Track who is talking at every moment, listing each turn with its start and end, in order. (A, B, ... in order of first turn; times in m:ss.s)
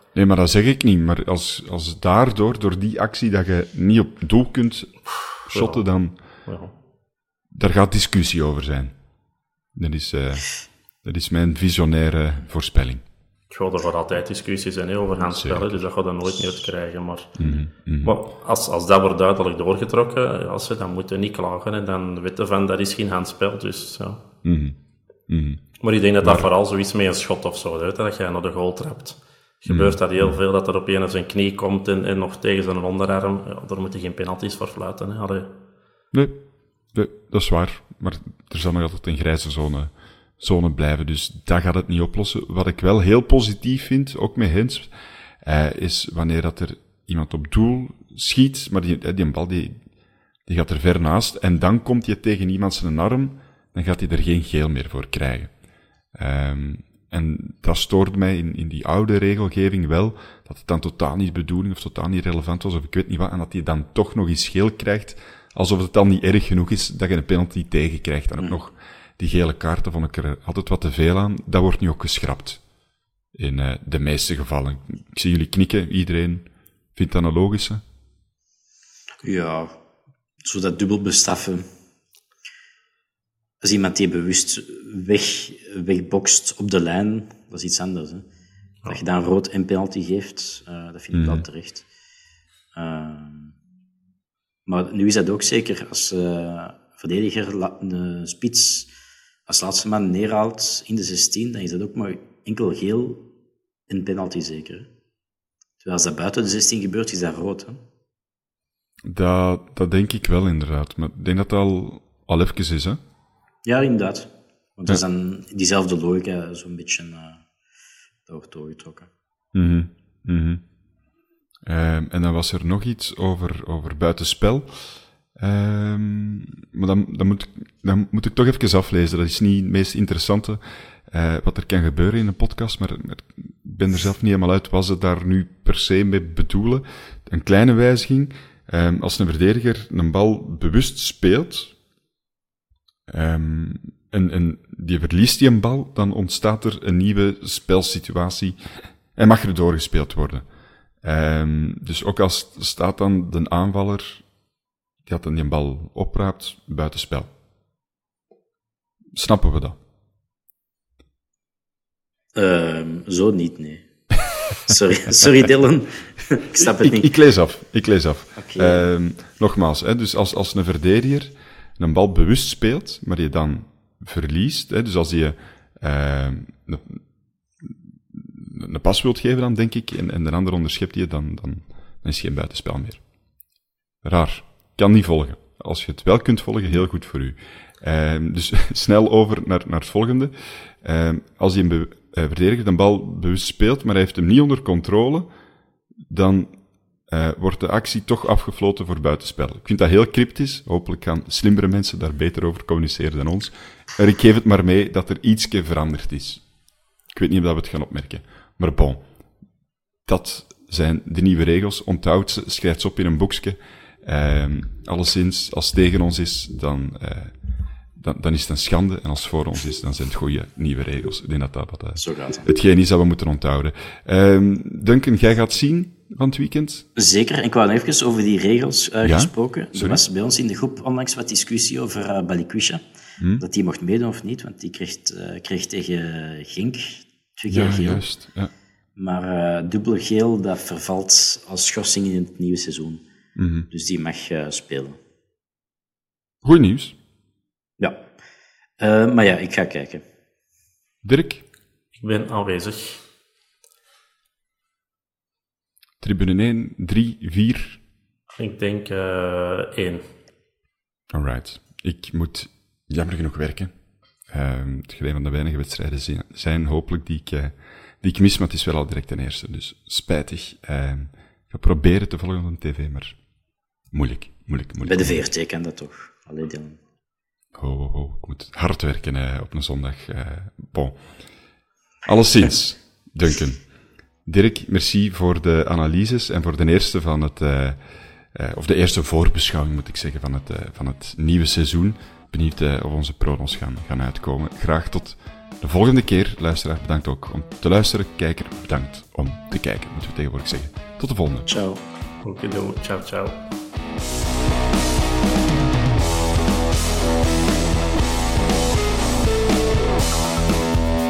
0:00.1-0:06.2 A
0:05.4-0:06.7 B
0:07.5-0:09.0 A
0:09.7-0:13.0 A
0:13.5-0:24.2 B
0:15.2-0:15.9 A
0:17.4-0:18.2 A
0:24.4-0:24.8 A
0:25.3-0:26.5 A
0:25.8-0:35.5 B
0:29.7-0:30.4 A
0:36.1-0:49.9 A
0:50.4-0:55.6 A
0:56.1-1:12.6 A
1:13.3-1:17.8 A
1:19.2-1:19.7 C
1:20.4-1:21.6 C
1:23.6-1:28.2 C
1:28.9-1:31.8 C
1:31.1-1:31.4 A
1:32.7-1:33.5 C
1:34.6-1:38.9 C
1:39.5-1:43.2 C
1:43.9-1:44.9 C
1:45.8-1:47.8 C
1:49.1-1:53.0 A
1:53.6-1:57.4 C
1:58.3-1:59.1 C
1:59.5-2:00.6 A
2:01.6-2:21.8 A
2:23.1-2:30.5 A
2:31.0-2:34.2 A
2:35.0-2:37.3 A
2:39.2-2:39.8 A
2:42.3-2:43.8 C
2:44.6-2:47.1 C
2:46.6-2:57.0 A
2:48.4-2:48.9 C
2:57.6-3:03.0 A
3:04.0-3:15.3 A
3:16.1-3:26.4 A
3:27.1-3:29.0 A
3:30.0-3:37.4 A
3:37.9-3:46.8 A
3:42.0-3:42.5 C
3:47.0-3:52.8 C
3:49.0-3:50.0 A
3:53.4-3:58.0 C
3:57.5-3:58.5 A
3:59.0-4:03.0 C
4:03.4-4:03.7 A
4:03.7-4:05.0 C
4:06.4-4:07.0 A
4:07.8-4:08.0 C
4:08.8-4:10.0 C
4:11.0-4:11.4 A
4:12.0-4:13.0 B
4:16.0-4:17.8 A
4:18.4-4:20.1 B
4:21.1-4:33.2 A
4:33.9-4:35.2 A
4:34.8-4:36.8 C
4:37.5-4:41.1 A
4:42.0-4:43.7 A
4:44.2-4:47.8 A
4:48.3-5:01.5 A
5:01.5-5:03.4 B